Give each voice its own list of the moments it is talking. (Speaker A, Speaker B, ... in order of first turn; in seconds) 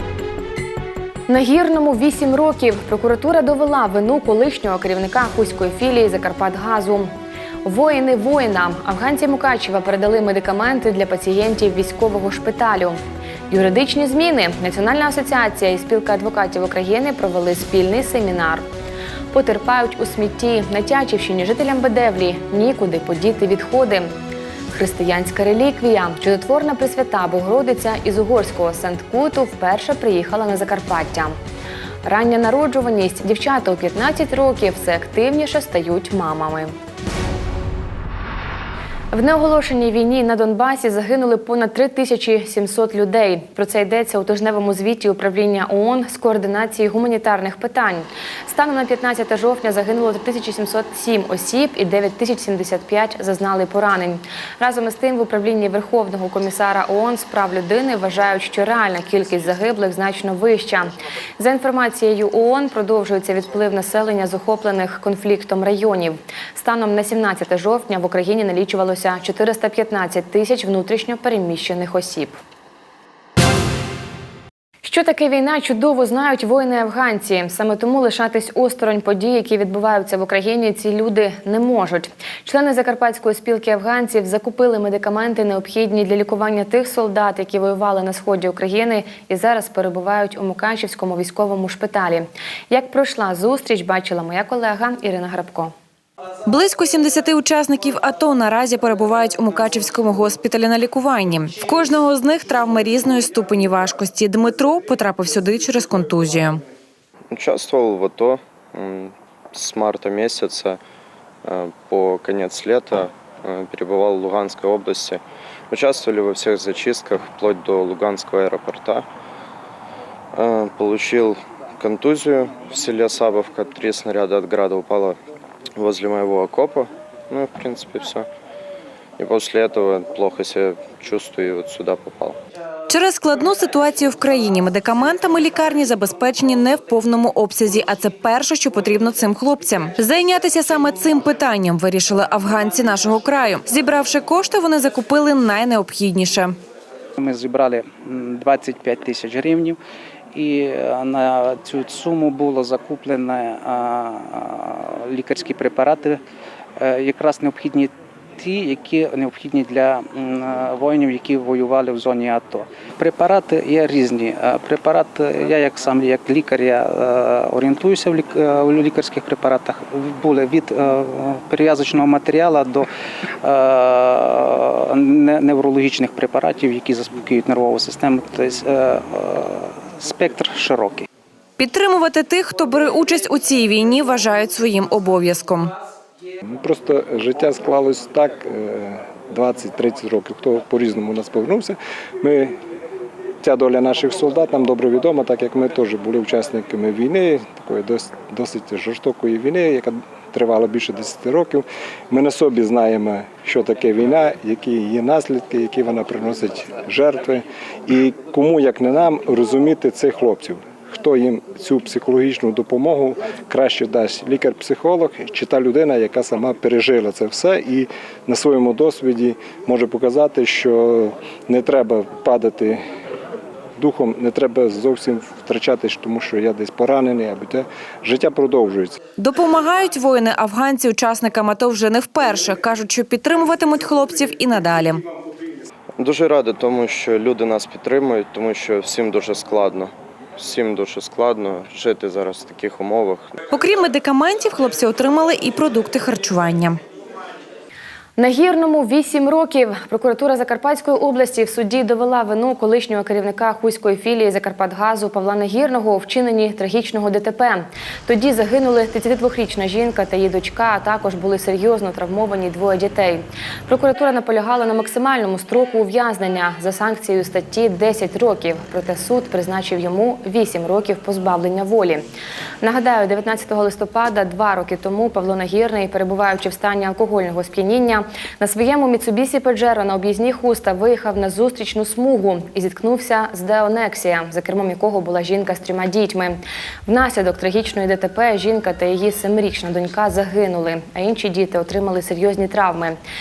Speaker A: 1.3-7.1, 7.6-18.7, 19.3-24.1, 24.7-31.4, 32.0-36.7, 39.1-72.4, 74.8-95.7, 248.2-272.1, 272.6-293.0
Speaker B: 96.5-106.6, 132.9-146.6, 181.6-185.7, 229.2-235.0, 243.5-246.8
Speaker C: 107.3-110.8, 111.4-119.0, 120.3-125.2, 125.8-128.3, 129.2-132.3, 236.0-243.3
Speaker D: 147.2-149.8, 150.3-156.2, 156.8-172.9, 173.4-181.1
Speaker E: 186.4-192.6, 193.4-222.8, 223.8-229.0